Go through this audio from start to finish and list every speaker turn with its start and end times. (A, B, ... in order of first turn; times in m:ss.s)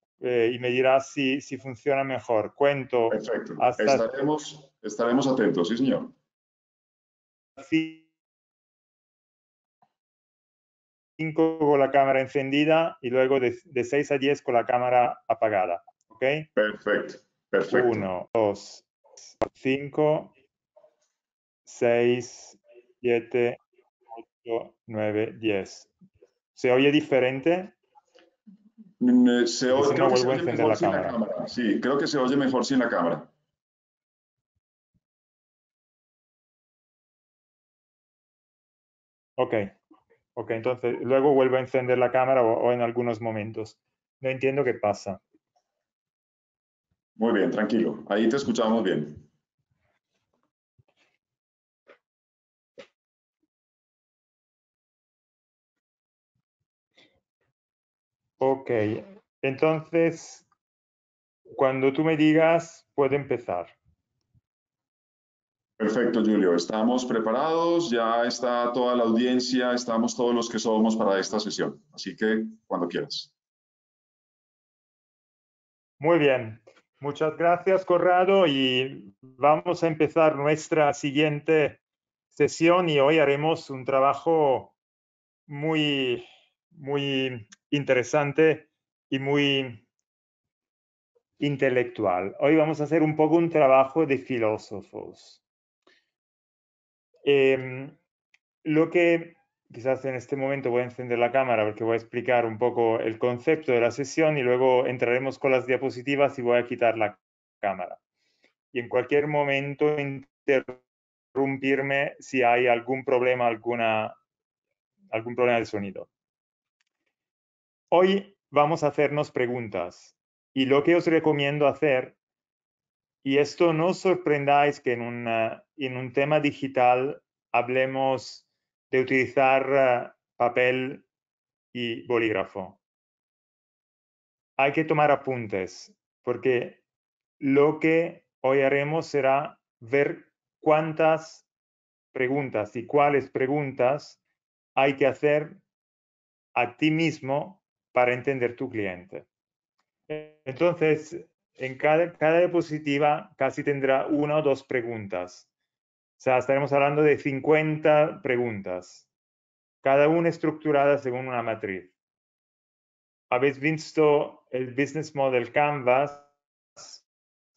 0:00.2-0:04.1 A
0:03.1-0:06.1 B
0:07.6-0:08.1 A
0:11.2-0:16.5 A
0:16.6-0:18.0 B
0:17.7-0:18.9 A
0:19.4-0:20.3 A
0:21.7-0:23.6 A
0:24.3-0:25.9 A
0:26.6-0:27.8 A
0:29.0-0:33.3 B
0:29.7-0:31.2 A
0:39.4-0:39.7 A
0:40.4-0:45.2 A
0:47.2-0:49.3 B
0:58.4-1:00.5 A
1:01.6-1:03.8 A
1:05.8-1:13.3 B
1:16.0-1:21.8 A
1:22.3-1:24.8 A
1:25.5-1:29.8 A
1:31.4-1:35.4 A
1:37.2-1:38.0 A
1:38.6-1:48.0 A
1:48.7-1:50.8 A
1:51.4-1:54.2 A
1:55.1-1:56.1 A
1:57.9-2:02.2 A
2:03.2-2:11.1 A
2:11.7-2:12.8 A
2:14.6-2:16.8 A
2:17.4-2:21.5 A
2:22.1-2:24.2 A
2:24.8-2:25.6 A
2:26.6-2:29.3 A
2:30.1-2:35.5 A
2:36.2-2:39.1 A
2:39.8-2:41.9 A
2:43.3-2:47.0 A